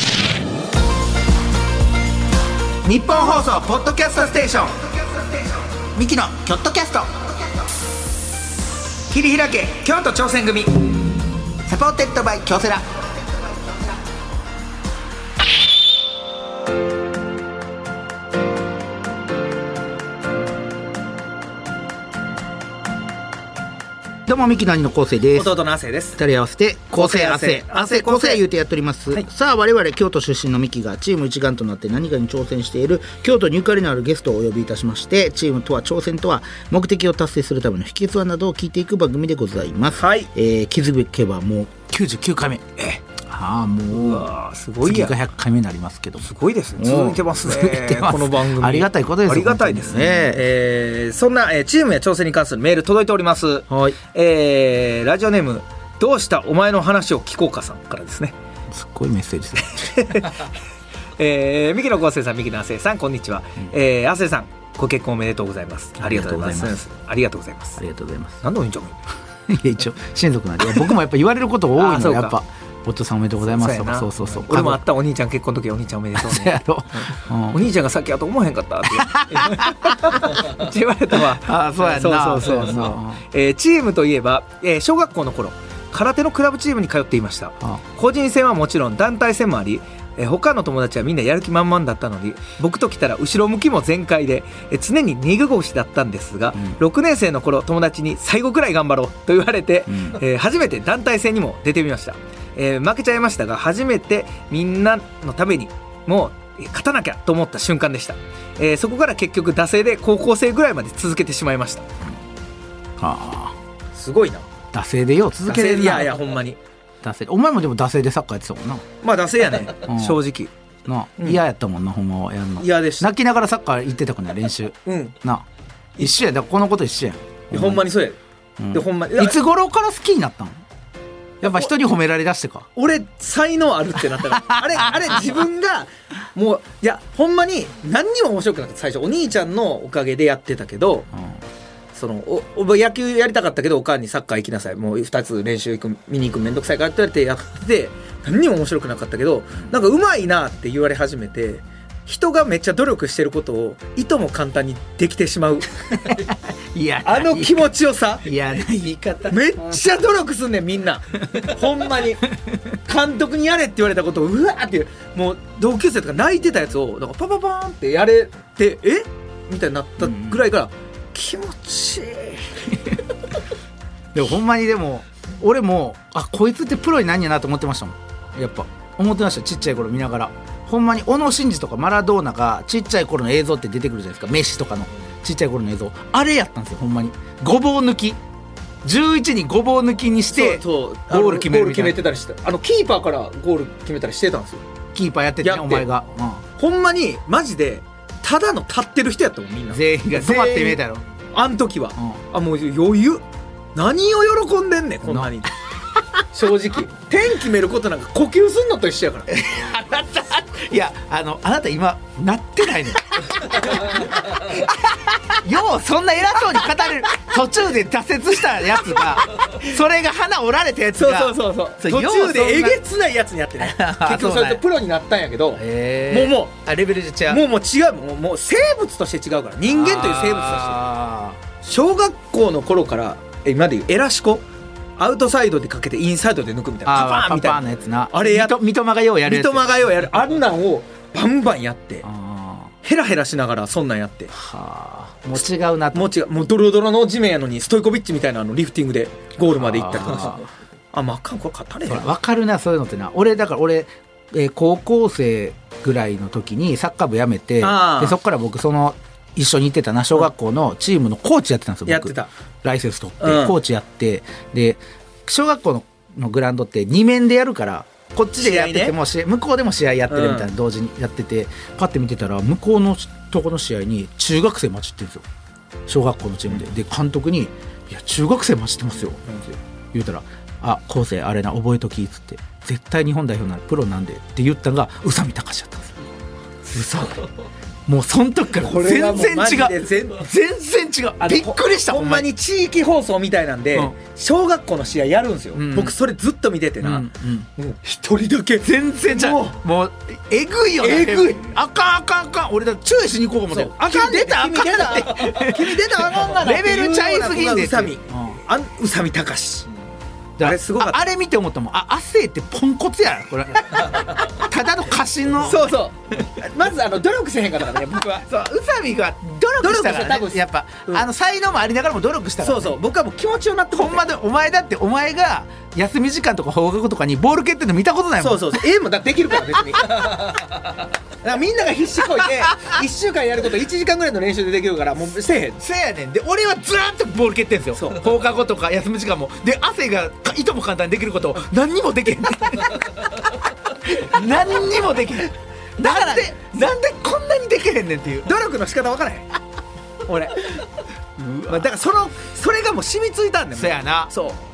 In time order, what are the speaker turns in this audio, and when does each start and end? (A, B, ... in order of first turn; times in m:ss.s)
0:02.8-0:04.7 A
0:03.9-0:04.7 B
0:05.9-0:07.3 A
0:09.1-0:10.9 B
0:11.6-0:13.0 A
0:24.3-0:25.5 A
0:25.4-0:26.2 B
0:26.2-0:42.6 A
0:27.0-0:28.4 B
0:40.0-0:40.3 B
0:43.2-0:44.3 A
0:43.9-0:45.2 B
0:44.8-0:50.4 A
0:46.2-0:58.4 B
0:53.7-0:54.0 A
0:58.7-0:59.8 A
0:59.6-1:00.5 B
1:01.2-1:07.8 B
1:06.0-1:06.8 A
1:07.8-1:08.4 A
1:08.4-1:09.0 B
1:09.5-1:14.8 A
1:11.8-1:12.4 B
1:13.4-1:51.8 B
1:16.2-1:17.6 A
1:19.0-1:20.4 A
1:21.4-1:23.2 A
1:39.9-1:40.2 A
1:53.0-1:53.6 A
1:54.0-1:54.5 B
1:54.7-1:56.2 A
1:55.5-1:56.6 B
1:57.0-1:58.8 A
1:59.0-2:00.5 B
1:59.8-2:00.2 A
2:00.9-2:05.4 A
2:02.6-2:03.1 B
2:04.9-2:05.2 B
2:06.0-2:07.8 A
2:07.5-2:08.2 B
2:08.6-2:10.6 A
2:08.7-2:09.4 B
2:11.4-2:12.7 A
2:12.8-2:21.1 B
2:21.9-2:35.7 B
2:36.0-2:37.7 A
2:37.0-2:38.3 B
2:38.2-2:39.6 A
2:39.3-2:42.2 B
2:42.9-2:52.5 B
2:50.0-2:50.4 A
2:54.2-3:08.2 A
3:08.8-3:12.0 A
3:10.3-3:14.6 B
3:15.0-3:16.4 A
3:15.4-3:15.9 B
3:16.6-3:20.8 B
3:19.7-3:21.0 A
3:21.4-3:23.2 B
3:23.8-3:25.5 B
3:25.0-3:25.3 A
3:26.3-3:29.3 B
3:29.3-3:34.5 A
3:35.3-3:42.8 A
3:41.0-3:46.6 B
3:43.6-3:44.6 A
3:45.6-3:47.4 A
3:47.3-3:50.8 B
3:49.7-3:51.4 A
3:51.6-3:54.4 B
3:55.0-3:58.6 B
3:56.9-3:59.7 A
3:59.2-4:02.0 B
4:02.0-4:02.7 A
4:02.8-4:04.3 B
4:04.3-4:06.1 A
4:05.9-4:12.1 B
4:09.6-4:10.5 A
4:11.9-4:35.2 A
4:17.6-4:18.2 B
4:21.9-4:22.3 B
4:23.2-4:23.5 B
4:28.4-4:29.0 B
4:30.1-4:30.5 B
4:35.9-4:39.2 A
4:39.9-4:45.9 A
4:46.7-4:47.2 A
4:47.9-4:52.3 A
4:48.6-4:50.3 B
4:51.2-4:59.6 B
4:55.6-4:55.9 A
4:56.8-4:57.5 A
4:58.6-5:08.4 A
5:00.8-5:01.5 B
5:03.5-5:09.7 B
5:10.4-5:15.7 A
5:10.4-5:11.0 B
5:15.4-5:18.3 B
5:18.2-5:22.8 A
5:19.6-5:21.1 B
5:22.4-5:24.1 B
5:23.7-5:28.6 A
5:28.2-5:30.7 B
5:31.2-5:35.6 B
5:35.6-5:42.8 A
5:37.8-5:38.2 B
5:43.8-5:48.3 A
5:45.8-5:46.7 B
5:48.2-5:49.3 B
5:50.1-5:50.4 B
5:51.2-5:51.7 A
5:51.5-5:54.4 B
5:53.6-5:54.1 A